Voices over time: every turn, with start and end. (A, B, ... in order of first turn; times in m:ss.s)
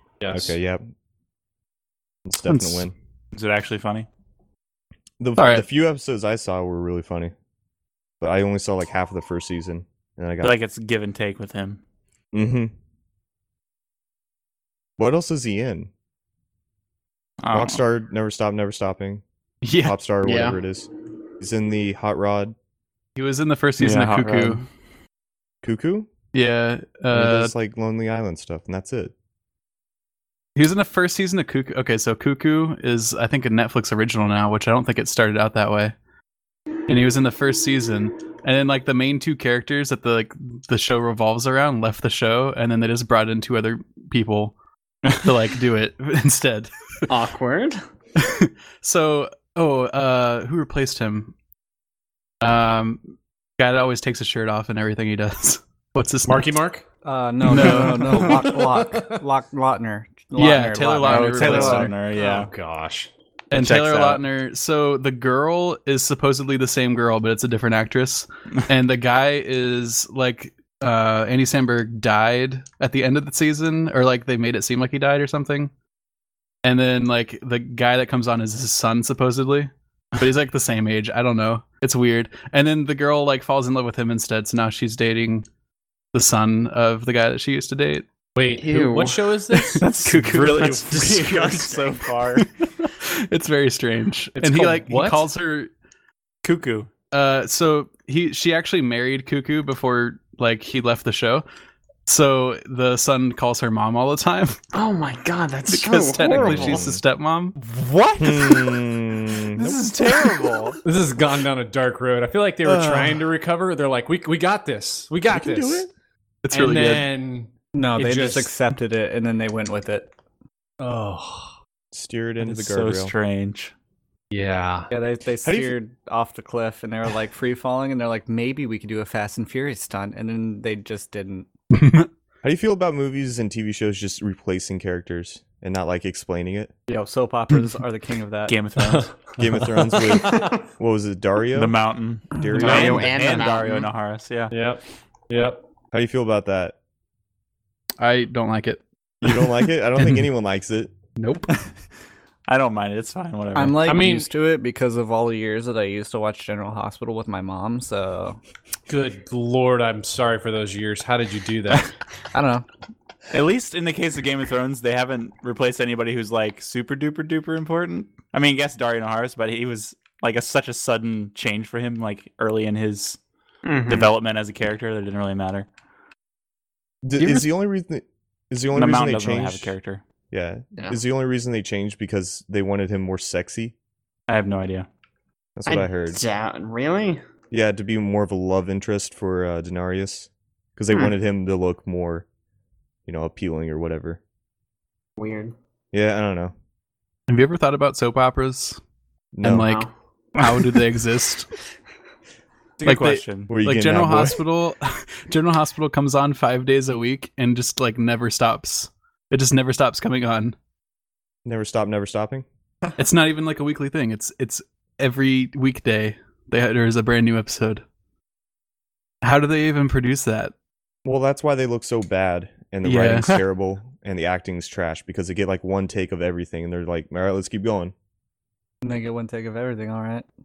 0:00.2-0:00.6 A
0:00.3-0:00.8 B
0:02.3-0:02.9 B
0:02.4-0:02.9 C
0:03.3-0:04.1 D
0:05.2-0:07.3 B
0:05.4-0:05.7 C
0:08.2-0:10.6 B
0:10.4-0:11.8 D
0:12.3-0:12.7 B
0:15.0-0:15.9 B
0:17.4-0:17.8 D
0:17.5-0:19.2 B
0:19.6-0:20.6 C
0:19.8-0:20.9 B
0:21.4-0:22.6 B
0:23.2-0:24.7 C
0:23.8-0:24.6 D
0:25.6-0:26.1 B
0:26.3-0:27.5 C
0:27.1-0:29.1 B
0:30.6-0:36.0 C
0:36.9-0:44.6 C
0:45.1-0:46.7 C
0:47.1-0:47.8 E
0:48.2-0:51.3 C
0:52.4-0:56.5 C
0:56.3-0:56.8 A
0:57.0-1:02.0 F
0:57.4-0:58.4 C
0:57.7-0:58.4 D
0:58.1-0:59.2 A
1:00.4-1:01.9 C
1:01.0-1:02.5 D
1:02.1-1:03.1 A
1:03.5-1:15.7 C
1:03.6-1:04.2 B
1:16.6-1:25.5 C
1:26.1-1:28.1 C
1:28.4-1:31.1 A
1:28.6-1:29.2 E
1:29.5-1:30.7 C
1:29.8-1:32.5 D
1:30.6-1:32.0 E
1:32.4-1:35.7 C
1:34.4-1:35.3 A
1:36.4-1:36.9 D
1:37.1-1:41.4 C
1:42.1-1:44.6 C
1:44.7-1:46.9 E
1:45.7-1:47.6 C
1:46.4-1:47.0 B
1:47.6-1:48.8 D
1:48.2-1:50.3 B
1:49.5-1:50.8 D
1:50.8-1:55.9 A
1:52.7-1:53.1 F
1:55.3-1:55.9 B
1:56.4-1:57.1 C
1:56.5-1:58.5 A
1:57.8-2:00.1 F
2:00.8-2:01.5 A
2:01.9-2:03.1 B
2:02.4-2:03.7 D
2:04.3-2:04.9 A
2:04.9-2:11.5 F
2:05.4-2:05.8 B
2:11.7-2:12.1 C
2:12.4-2:16.7 B
2:16.9-2:18.6 F
2:18.5-2:19.2 D
2:18.8-2:20.5 A
2:19.4-2:21.8 B
2:20.4-2:20.6 E
2:21.6-2:24.5 D
2:22.3-2:23.4 B
2:22.6-2:23.9 E
2:24.5-2:25.6 A
2:25.9-2:26.8 B
2:28.0-2:28.8 C
2:29.2-2:30.9 B
2:31.2-2:31.5 C
2:32.5-2:33.8 D
2:33.6-2:38.4 F
2:33.8-2:34.3 A
2:38.9-2:41.9 A
2:42.3-2:42.6 F
2:43.3-2:53.2 D
2:53.6-2:54.1 E
2:53.9-2:55.7 D
2:57.0-2:59.8 B
2:58.7-3:00.0 D
3:00.3-3:03.7 B
3:04.3-3:04.9 D
3:05.6-3:06.2 B
3:05.7-3:07.2 E
3:07.5-3:12.3 B
3:13.1-3:14.2 B
3:15.2-3:15.5 E
3:15.9-3:16.5 B
3:17.3-3:18.8 C
3:19.3-3:19.7 B
3:19.4-3:21.5 C
3:19.6-3:19.9 E
3:22.8-3:23.5 D
3:22.8-3:30.6 C
3:23.5-3:24.4 B
3:31.4-3:32.4 B
3:33.0-3:37.8 C
3:39.2-3:40.5 C
3:41.0-3:47.9 B
3:42.8-3:43.3 C
3:48.8-3:50.3 F